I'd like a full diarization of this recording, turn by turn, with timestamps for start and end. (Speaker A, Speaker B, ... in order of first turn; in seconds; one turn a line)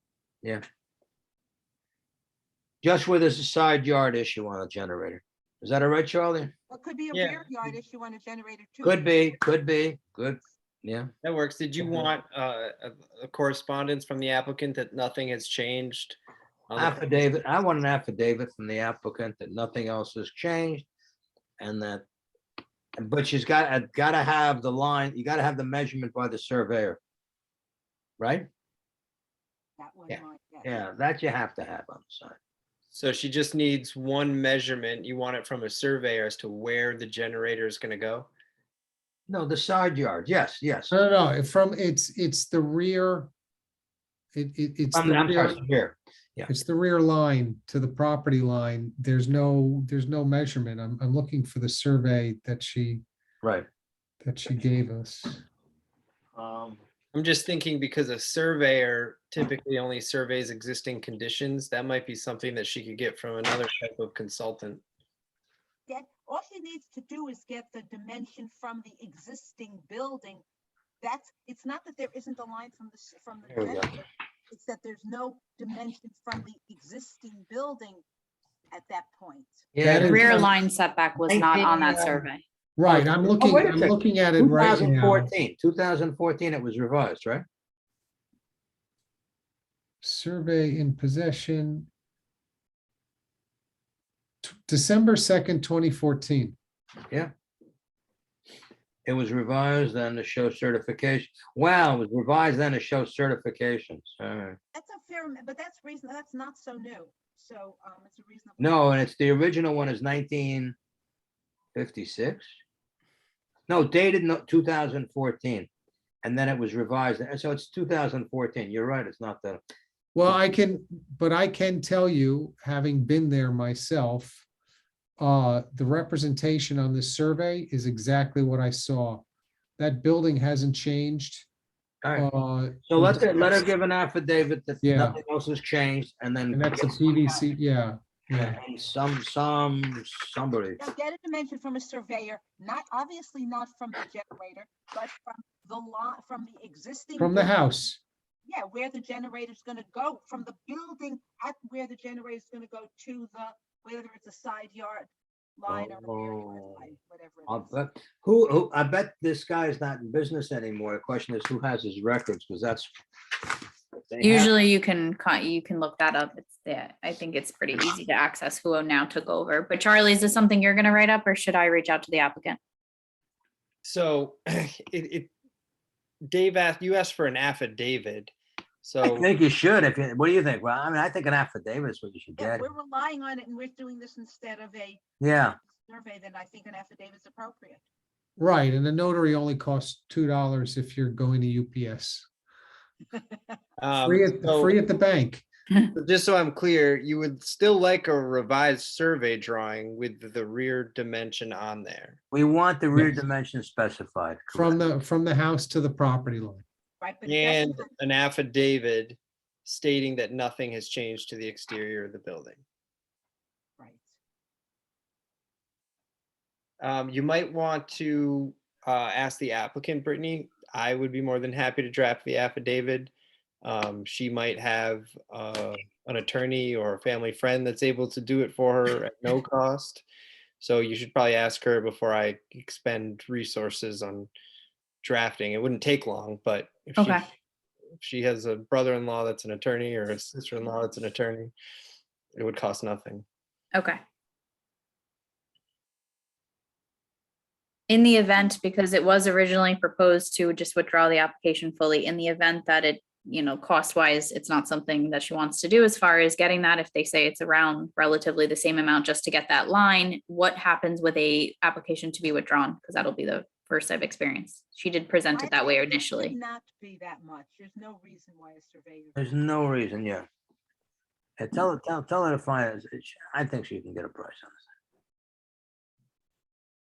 Speaker A: 2.8-6.5
Speaker B: 6.7-9.2
Speaker C: 7.1-7.5
Speaker A: 8.8-11.1
Speaker C: 11.2-16.2
Speaker C: 16.7-17.0
Speaker A: 16.8-20.9
Speaker A: 21.6-22.0
Speaker A: 23.0-27.0
Speaker A: 28.2-28.5
Speaker B: 29.8-30.7
Speaker A: 30.1-32.4
Speaker C: 32.9-38.3
Speaker A: 39.3-40.9
Speaker D: 40.9-43.3
Speaker D: 44.3-45.6
Speaker A: 44.9-46.5
Speaker D: 46.5-53.0
Speaker A: 53.4-53.7
Speaker D: 54.2-55.4
Speaker A: 56.4-56.8
Speaker C: 57.1-64.8
Speaker B: 65.9-70.4
Speaker B: 71.0-78.0
Speaker A: 73.5-74.0
Speaker B: 78.7-79.7
Speaker A: 79.7-80.4
Speaker D: 79.8-80.5
Speaker E: 80.0-82.4
Speaker A: 81.3-82.2
Speaker D: 82.8-85.3
Speaker A: 82.8-87.4
Speaker D: 90.0-91.9
Speaker D: 94.4-96.5
Speaker A: 99.0-104.6
Speaker B: 104.7-108.7
Speaker A: 108.6-110.7
Speaker A: 111.7-112.5
Speaker A: 113.7-115.7
Speaker A: 116.2-119.6
Speaker D: 120.1-124.4
Speaker D: 125.2-129.2
Speaker D: 129.8-131.4
Speaker D: 132.2-133.6
Speaker A: 132.8-137.1
Speaker D: 134.8-135.2
Speaker D: 136.5-138.6
Speaker A: 138.3-140.8
Speaker B: 140.8-147.5
Speaker D: 147.2-148.0
Speaker B: 148.4-157.7
Speaker A: 155.7-156.8
Speaker A: 157.5-162.9
Speaker A: 164.1-164.5
Speaker E: 164.2-172.6
Speaker C: 173.8-175.3
Speaker C: 176.3-179.3
Speaker A: 179.0-182.7
Speaker B: 182.4-185.0
Speaker A: 185.2-185.6
Speaker B: 185.6-187.8
Speaker D: 188.4-192.2
Speaker C: 193.8-194.7
Speaker D: 194.0-195.4
Speaker C: 195.9-202.2
Speaker A: 202.3-204.8
Speaker D: 204.5-206.6
Speaker B: 207.0-207.9
Speaker C: 207.2-212.6
Speaker B: 213.8-214.1
Speaker C: 216.8-223.1
Speaker C: 223.6-230.0
Speaker C: 230.6-234.3
Speaker C: 235.0-237.2
Speaker E: 237.0-237.2
Speaker C: 238.0-241.5
Speaker C: 242.3-243.2
Speaker E: 247.9-266.3
Speaker B: 265.3-269.2
Speaker A: 269.1-270.2
Speaker A: 271.4-274.6